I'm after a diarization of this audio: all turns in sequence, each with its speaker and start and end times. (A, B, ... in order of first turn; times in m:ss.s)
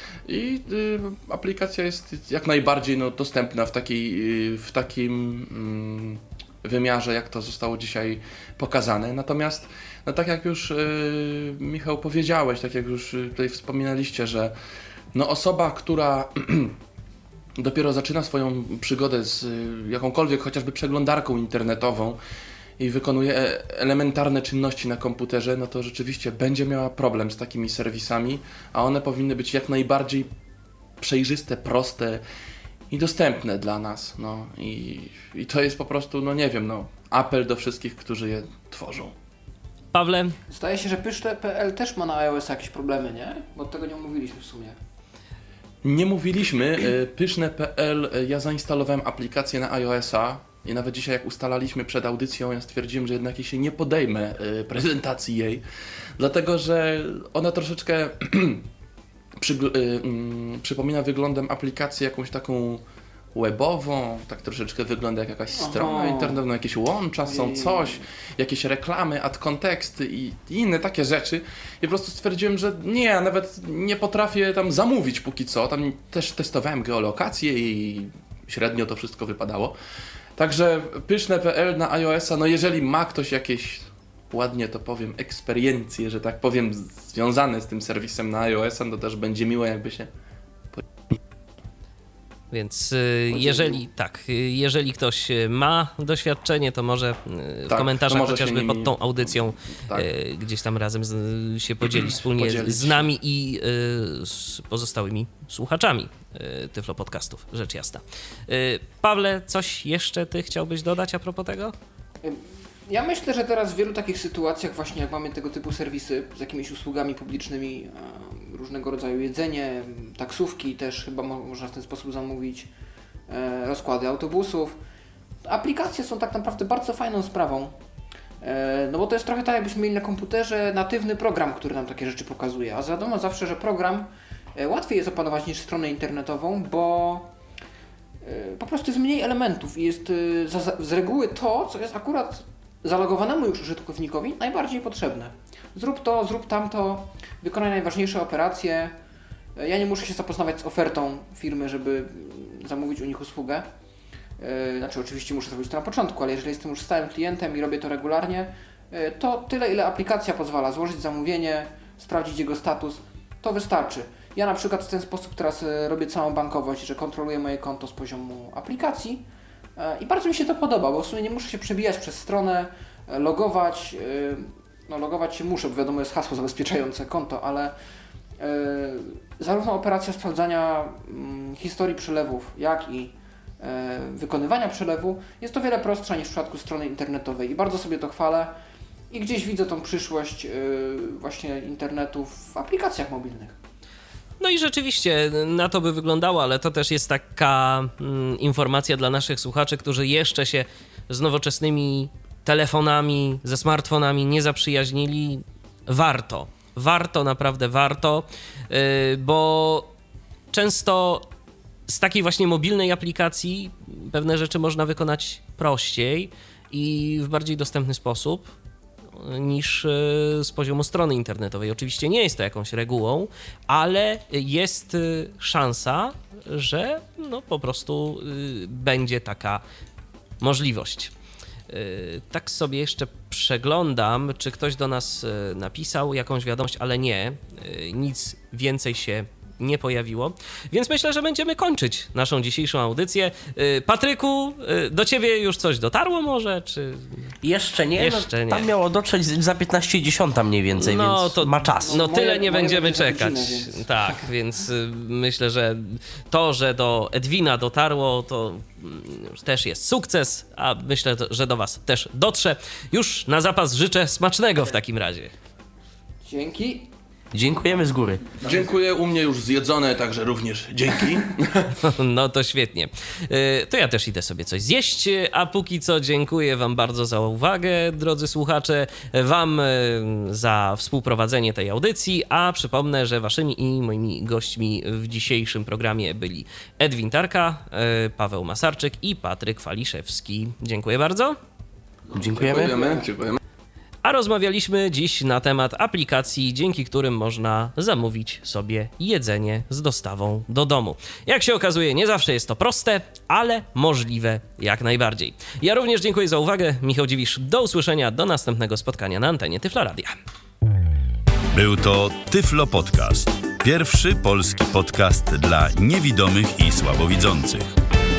0:00.3-0:14.5 A
0:15.1-0:16.8 A
0:17.6-0:22.2 A
0:22.8-0:30.3 A
0:31.0-0:32.2 A
0:32.9-0:39.1 A
0:39.9-0:40.4 B
0:40.5-0:44.8 C
0:45.8-0:55.6 A
0:56.2-0:58.6 A
0:59.4-1:02.8 A
1:03.3-1:19.7 A
1:05.5-1:06.4 C
1:07.2-1:08.0 C
1:20.4-1:30.1 A
1:30.7-1:31.2 A
1:32.5-1:51.7 B
1:33.3-1:33.7 C
1:37.7-1:40.1 A
1:41.8-1:43.1 A
1:52.2-2:02.7 C
2:03.3-2:04.8 C
2:05.4-2:07.7 C
2:08.4-2:17.3 C
2:18.2-2:29.0 C
2:29.6-2:33.7 C
2:34.4-2:57.7 C
2:58.4-3:08.6 C
3:09.1-3:13.6 C
3:14.4-3:29.9 B
3:30.5-3:31.3 B
3:31.9-3:38.5 B
3:39.1-3:49.6 B
3:50.4-3:51.1 B
3:51.7-4:07.3 B
4:07.4-4:12.0 D
4:08.0-4:08.7 B
4:10.8-4:25.3 B
4:11.8-4:14.3 C
4:26.2-4:26.9 C
4:27.3-4:28.4 D
4:28.4-4:31.8 A
4:31.8-4:51.4 B
4:52.1-4:52.9 D
4:52.2-4:53.4 A
4:52.5-4:53.0 C
4:54.0-5:10.1 B
5:11.5-5:17.7 E